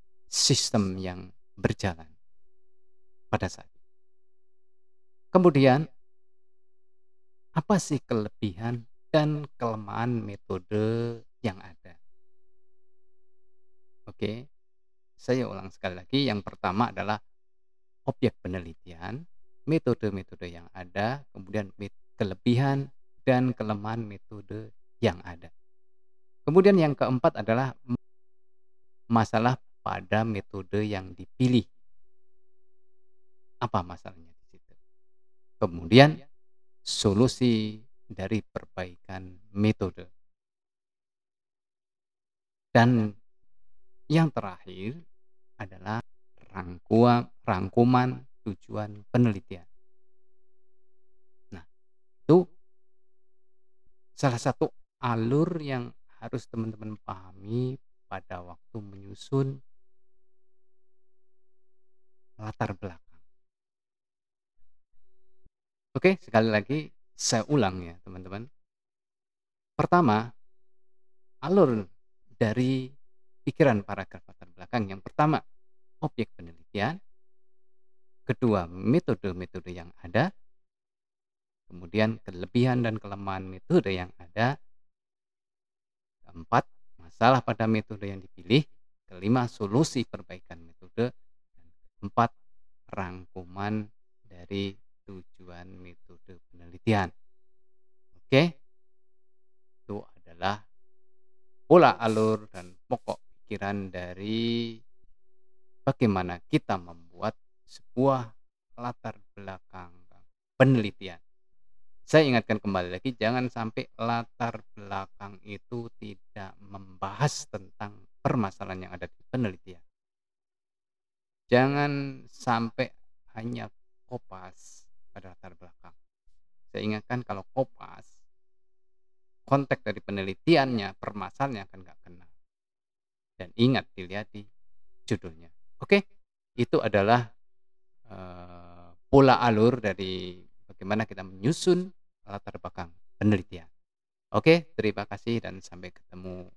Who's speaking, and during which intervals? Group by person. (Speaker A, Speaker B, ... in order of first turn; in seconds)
Speaker A: 0.4-2.1, 3.3-3.7, 5.3-5.8, 7.6-12.0, 14.1-14.3, 15.2-17.2, 18.1-19.2, 19.7-25.5, 26.5-27.7, 29.1-31.6, 33.6-34.8, 35.6-36.2, 36.9-37.6, 38.2-40.1, 42.7-43.0, 44.1-45.0, 45.6-49.6, 54.2-59.5, 62.4-63.2, 66.0-68.4, 69.8-70.2, 71.5-71.8, 72.4-72.8, 73.5-75.4, 76.0-77.0, 78.3-80.3, 81.7-84.5, 86.3-91.1, 92.0-92.3, 92.9-93.8, 94.3-97.1, 99.9-100.5, 101.7-104.7, 105.9-108.2, 108.8-111.2, 112.1-119.8, 121.5-125.9, 126.7-128.2, 129.5-132.3, 133.4-134.4, 135.1-136.0, 136.6-137.2, 138.1-140.1, 140.6-143.7, 144.3-146.4